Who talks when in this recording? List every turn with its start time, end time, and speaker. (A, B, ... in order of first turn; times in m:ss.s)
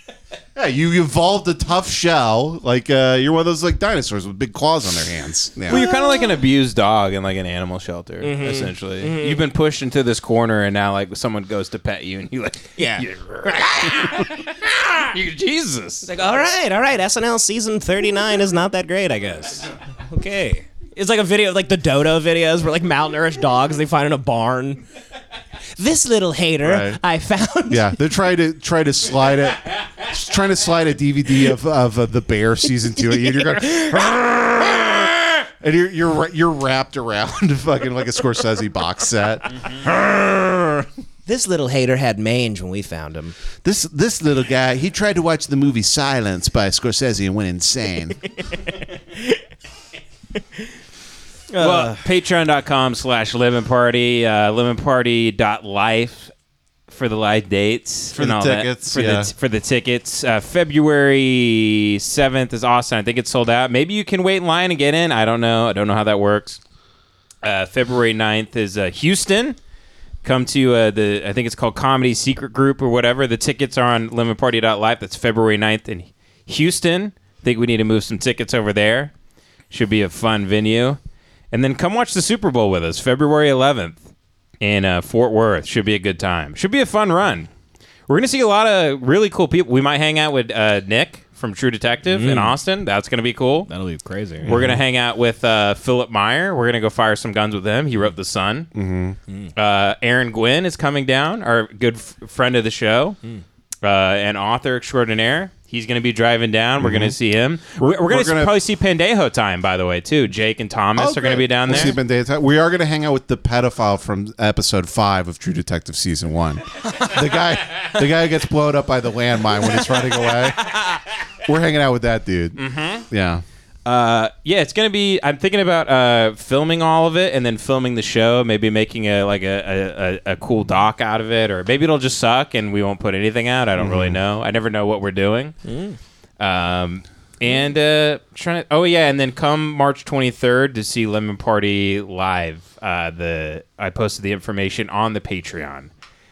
0:00.6-0:05.8 A
0:05.7-0:16.1 B
0:05.7-0:06.4 C
0:08.2-0:09.4 C
0:12.8-0:13.0 C
0:16.0-0:24.8 C
0:25.8-0:28.0 C
0:26.6-0:27.0 A
0:27.7-0:40.8 A
0:41.3-0:43.4 C
0:43.6-0:48.2 A
0:51.5-0:52.0 C
0:51.6-0:56.3 B
0:56.9-1:06.6 B
0:58.1-0:59.3 A
1:07.4-1:09.6 B
1:10.2-1:19.1 B
1:19.7-1:21.0 B
1:21.5-1:24.0 B
1:24.6-1:27.5 B
1:28.1-1:33.7 B
1:32.1-1:32.6 C
1:33.7-1:34.5 C
1:34.4-1:34.8 A
1:34.4-1:38.7 B
1:38.7-1:39.2 A
1:39.6-1:43.2 B
1:43.8-1:51.9 B
1:46.8-1:47.2 A
1:47.8-1:48.6 A
1:51.0-2:00.8 A
2:01.4-2:02.6 A
2:02.6-2:03.1 B
2:03.1-2:03.4 A
2:03.9-2:15.6 B
2:13.8-2:14.2 A
2:15.6-2:16.0 C
2:16.4-2:25.9 B